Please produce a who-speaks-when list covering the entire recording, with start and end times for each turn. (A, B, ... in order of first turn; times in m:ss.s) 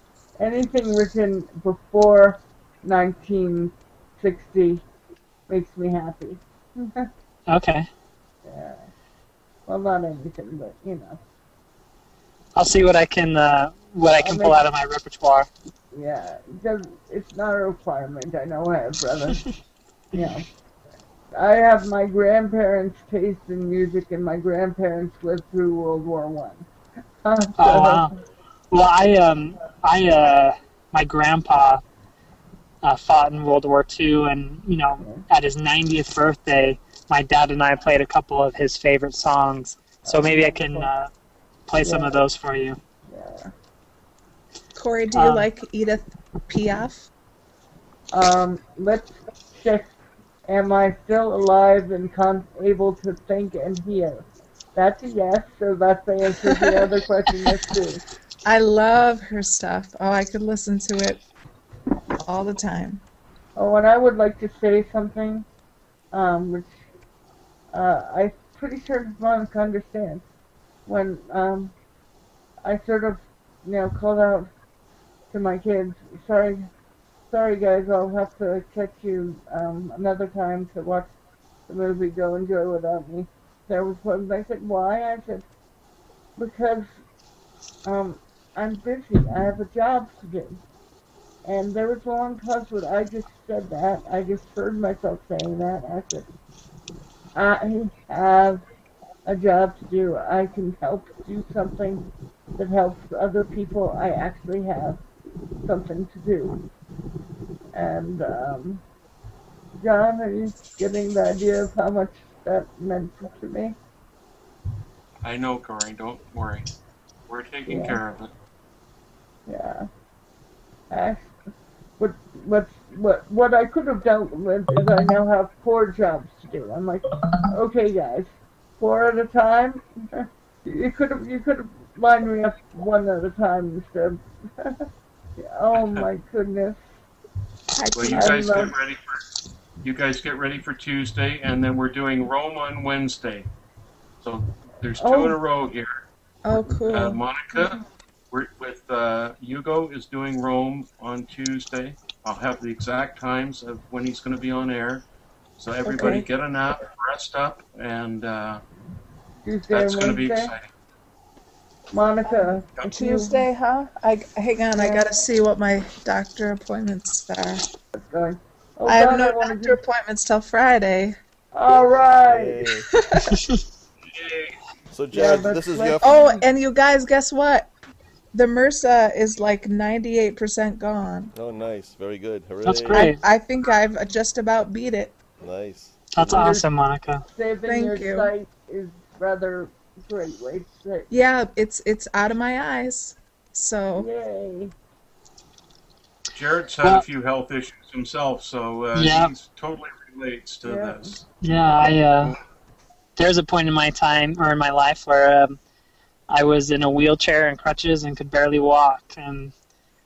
0:00.4-0:04.8 A
0:05.5-0:07.1 A
0:07.5-0:07.9 B
0:08.4-0:08.9 A
0:09.7-0:11.2 A
0:12.6-0:15.5 B
0:14.2-0:14.6 A
0:15.9-0:19.6 A
0:20.1-0:20.5 A
0:21.3-0:26.7 A
0:27.2-0:28.1 A
0:27.6-0:28.1 B
0:28.7-0:31.8 B
0:32.8-0:41.1 B
0:40.1-0:40.9 A
0:41.7-0:42.8 B
0:41.8-0:42.2 A
0:43.1-0:43.5 A
0:44.8-0:47.1 C
0:45.1-0:45.5 B
0:48.1-0:50.0 A
0:50.5-0:58.0 A
0:56.4-0:56.9 C
0:58.4-1:01.2 C
1:02.2-1:03.0 C
1:03.6-1:05.5 A
1:06.1-1:06.8 A
1:07.7-1:10.2 A
1:10.9-1:11.8 A
1:12.6-1:14.5 A
1:15.3-1:16.7 A
1:17.3-1:21.1 A
1:21.7-1:25.4 A
1:26.4-1:27.0 A
1:27.8-1:30.6 A
1:31.4-1:36.3 A
1:37.4-1:38.6 A
1:39.3-1:42.1 A
1:42.6-1:45.0 A
1:45.6-1:46.6 A
1:47.7-1:48.8 A
1:49.8-1:53.8 A
1:55.2-1:56.7 D
1:57.3-1:58.3 D
1:57.7-1:58.0 A
1:59.5-1:59.9 A
2:00.9-2:01.4 A
2:02.0-2:14.9 A
2:15.4-2:16.8 A
2:15.7-2:16.1 D
2:17.8-2:18.6 C
2:18.0-2:19.2 D
2:18.1-2:18.7 A
2:19.8-2:23.5 D
2:24.2-2:26.0 D
2:25.0-2:25.4 A
2:26.4-2:27.8 C
2:26.9-2:27.8 D
2:28.3-2:35.0 D
2:35.6-2:38.6 D
2:35.8-2:36.3 C
2:39.4-2:40.5 A
2:39.7-2:40.7 D
2:41.9-2:43.4 A
2:42.2-2:47.6 C
2:44.8-2:45.1 A
2:48.0-2:49.8 A
2:48.9-2:51.2 C
2:51.5-2:52.7 A
2:52.2-2:52.9 E
2:52.9-2:53.4 C
2:53.3-2:53.6 B
2:54.1-2:54.6 D
2:54.9-2:56.2 E
2:55.1-2:56.4 A
2:56.0-2:57.7 C
2:58.3-3:01.3 C
3:01.4-3:03.1 E
3:02.6-3:03.2 B
3:02.9-3:05.2 C
3:05.4-3:06.6 E
3:06.1-3:07.2 B
3:06.3-3:06.7 A
3:07.3-3:11.1 A
3:07.7-3:08.3 C
3:11.1-3:14.1 C
3:14.0-3:14.7 A
3:16.3-3:21.2 D
3:18.9-3:19.3 B
3:20.6-3:21.2 A
3:21.4-3:22.4 B
3:23.2-3:25.6 B
3:26.3-3:29.5 B